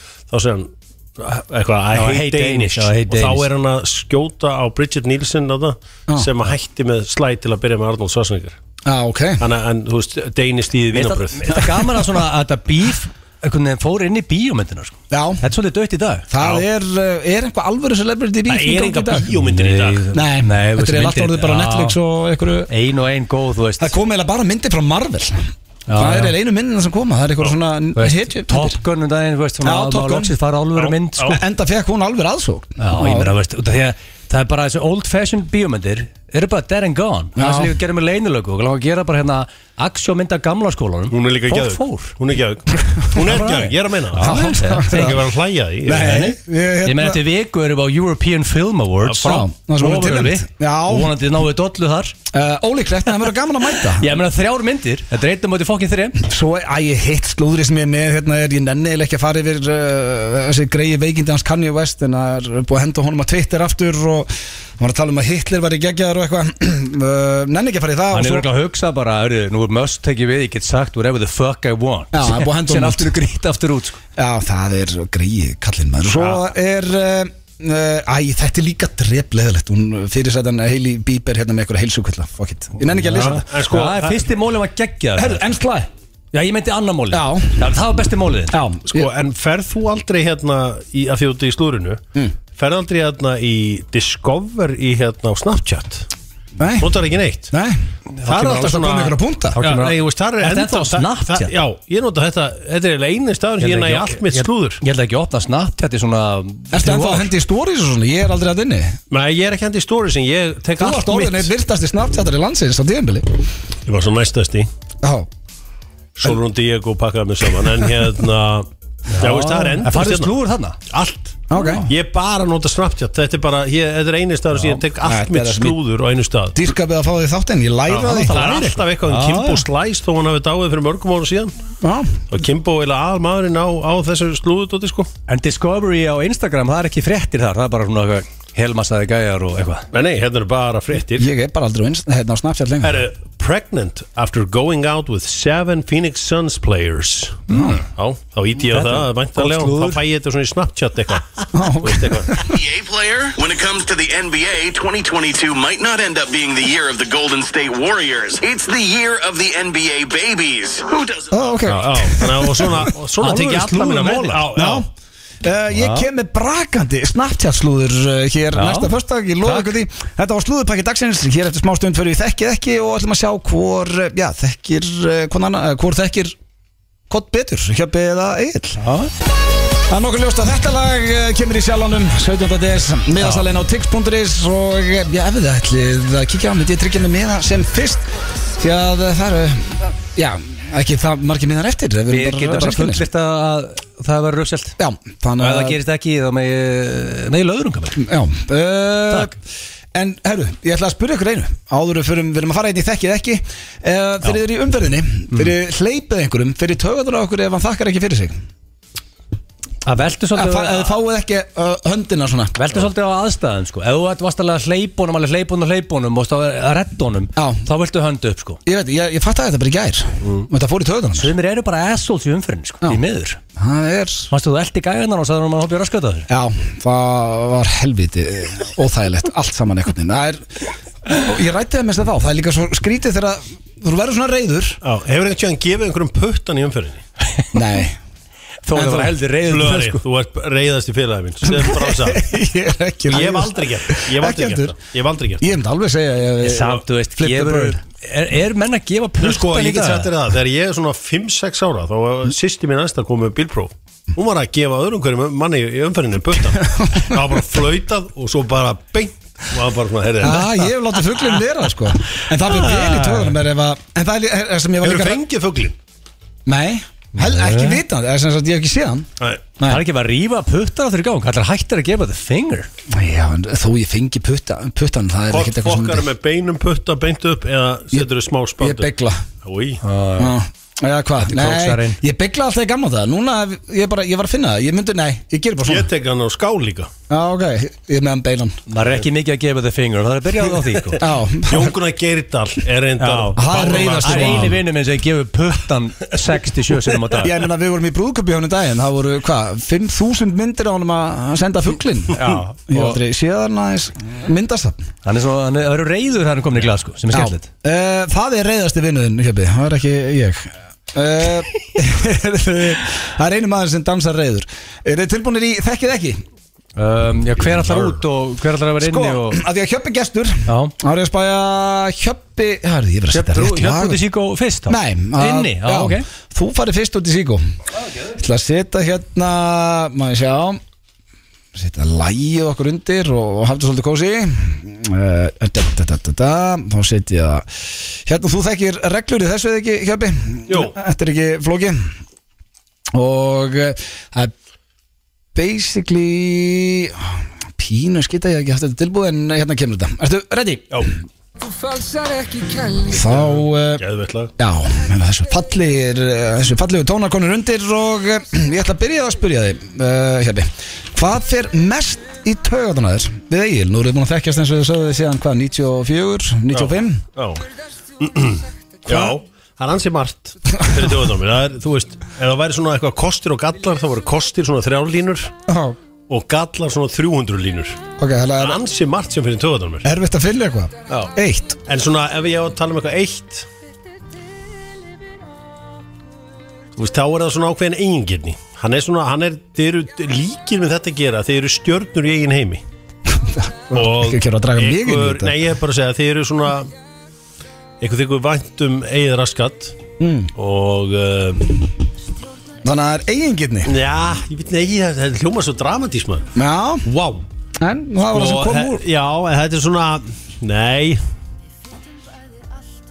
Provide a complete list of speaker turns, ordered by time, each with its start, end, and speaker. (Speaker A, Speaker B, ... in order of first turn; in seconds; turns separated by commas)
Speaker A: 0.3-8.6, Speaker B: 1.9-3.5, Speaker C: 8.8-9.4, Speaker A: 9.4-11.7, Speaker B: 10.9-16.3, Speaker C: 15.1-15.4, Speaker C: 16.3-19.3, Speaker A: 16.4-16.6, Speaker A: 18.5-20.0, Speaker B: 19.4-22.0, Speaker C: 20.1-22.7, Speaker B: 22.7-23.9, Speaker C: 23.8-28.8, Speaker B: 25.9-26.3, Speaker B: 27.9-31.4, Speaker C: 29.6-30.4, Speaker A: 30.8-31.4, Speaker C: 31.3-33.3, Speaker B: 32.8-42.1, Speaker C: 37.4-37.8, Speaker A: 41.1-46.2, Speaker B: 43.1-45.1, Speaker C: 44.1-45.2, Speaker C: 45.8-47.2, Speaker B: 45.9-52.1, Speaker A: 49.1-49.3, Speaker C: 49.2-51.1, Speaker C: 52.3-54.1, Speaker B: 53.9-56.2, Speaker C: 56.2-68.5, Speaker B: 68.1-74.0, Speaker C: 72.1-73.1, Speaker C: 74.2-83.4, Speaker A: 83.1-84.3, Speaker B: 83.1-85.4, Speaker C: 85.2-85.9, Speaker B: 86.3-88.6, Speaker C: 87.1-87.7, Speaker C: 88.5-89.1, Speaker A: 88.9-92.0, Speaker A: 92.5-96.1, Speaker C: 96.6-97.0, Speaker A: 96.8-97.5, Speaker C: 97.5-99.6, Speaker A: 98.2-104.8, Speaker B: 99.5-101.5, Speaker B: 103.6-107.3, Speaker C: 106.7-109.0, Speaker A: 109.1-111.5, Speaker C: 110.8-113.3, Speaker A: 113.8-114.7, Speaker C: 115.0-115.3, Speaker A: 116.2-118.7, Speaker B: 119.1-120.8, Speaker A: 119.2-120.3, Speaker A: 120.9-126.6, Speaker C: 121.5-121.9, Speaker C: 125.0-125.8, Speaker C: 126.5-128.4, Speaker A: 127.9-131.5, Speaker B: 128.1-129.6, Speaker C: 131.8-132.2, Speaker A: 132.3-135.1, Speaker B: 135.3-139.9, Speaker A: 139.9-141.3, Speaker C: 141.1-143.1, Speaker A: 142.8-152.3, Speaker B: 147.5-147.8, Speaker C: 147.5-147.8, Speaker B: 148.7-150.0, Speaker C: 151.5-152.6, Speaker D: 152.4-161.6, Speaker C: 161.3-162.9, Speaker A: 161.7-164.8, Speaker B: 163.2-164.5, Speaker C: 164.5-164.9, Speaker C: 165.4-176.3, Speaker B: 165.7-166.1, Speaker B: 168.5-168.9, Speaker B: 169.4-169.7, Speaker C: 177.1-178.8, Speaker B: 178.8-179.1, Speaker C: 179.9-193.0, Speaker B: 192.1-194.8, Speaker C: 194.8-195.8, Speaker B: 195.4-198.0, Speaker C: 198.0-199.3, Speaker C: 199.9-208.3, Speaker B: 209.8-210.9, Speaker C: 210.3-212.6, Speaker B: 212.6-218.6, Speaker C: 217.4-217.6, Speaker C: 218.7-221.3, Speaker B: 221.1-223.4, Speaker C: 223.6-224.3, Speaker B: 224.3-226.3, Speaker C: 226.3-234.8, Speaker A: 234.8-237.0, Speaker C: 237.5-238.0, Speaker B: 238.6-240.0, Speaker C: 238.7-239.1, Speaker A: 239.5-242.3, Speaker C: 241.4-244.7, Speaker A: 243.1-245.4, Speaker C: 245.4-247.8, Speaker B: 246.4-250.1, Speaker A: 249.2-260.7, Speaker C: 256.6-257.2, Speaker C: 260.2-265.2, Speaker B: 262.6-263.1, Speaker A: 264.8-265.8, Speaker C: 266.4-269.1, Speaker B: 267.1-267.8, Speaker B: 269.6-272.7, Speaker C: 272.9-276.1, Speaker A: 275.3-278.9, Speaker C: 278.6-279.2, Speaker A: 279.4-279.8, Speaker B: 279.8-280.4, Speaker C: 280.2-285.9, Speaker B: 281.2-282.0, Speaker A: 285.6-286.9, Speaker C: 287.1-288.6, Speaker B: 288.7-291.0, Speaker A: 290.7-294.6, Speaker C: 291.0-291.7, Speaker B: 293.0-297.3, Speaker C: 293.4-294.6, Speaker C: 297.2-304.8, Speaker B: 302.1-303.0, Speaker B: 305.0-307.5, Speaker C: 307.1-316.2, Speaker B: 316.8-319.4, Speaker C: 318.8-324.0, Speaker B: 320.4-320.7, Speaker B: 323.1-326.1, Speaker C: 324.7-327.4, Speaker C: 328.1-330.6, Speaker C: 331.5-341.9, Speaker A: 340.5-340.7, Speaker C: 342.9-344.3, Speaker C: 345.3-350.9, Speaker C: 351.6-353.8, Speaker A: 352.8-354.3, Speaker C: 354.4-367.0, Speaker A: 366.5-367.4, Speaker A: 368.0-375.4, Speaker C: 368.9-369.1, Speaker C: 370.6-370.9, Speaker C: 375.5-375.8, Speaker A: 376.1-377.8, Speaker C: 378.0-378.6, Speaker A: 378.4-379.9, Speaker C: 379.8-381.6, Speaker A: 381.7-383.5, Speaker A: 386.8-392.6, Speaker C: 393.1-395.4, Speaker A: 393.7-396.7, Speaker A: 397.8-399.8, Speaker C: 400.0-400.3, Speaker A: 400.3-401.7, Speaker C: 402.6-403.8, Speaker A: 403.6-406.3, Speaker C: 406.3-406.9, Speaker A: 406.8-407.2, Speaker C: 407.6-408.8, Speaker A: 408.1-411.0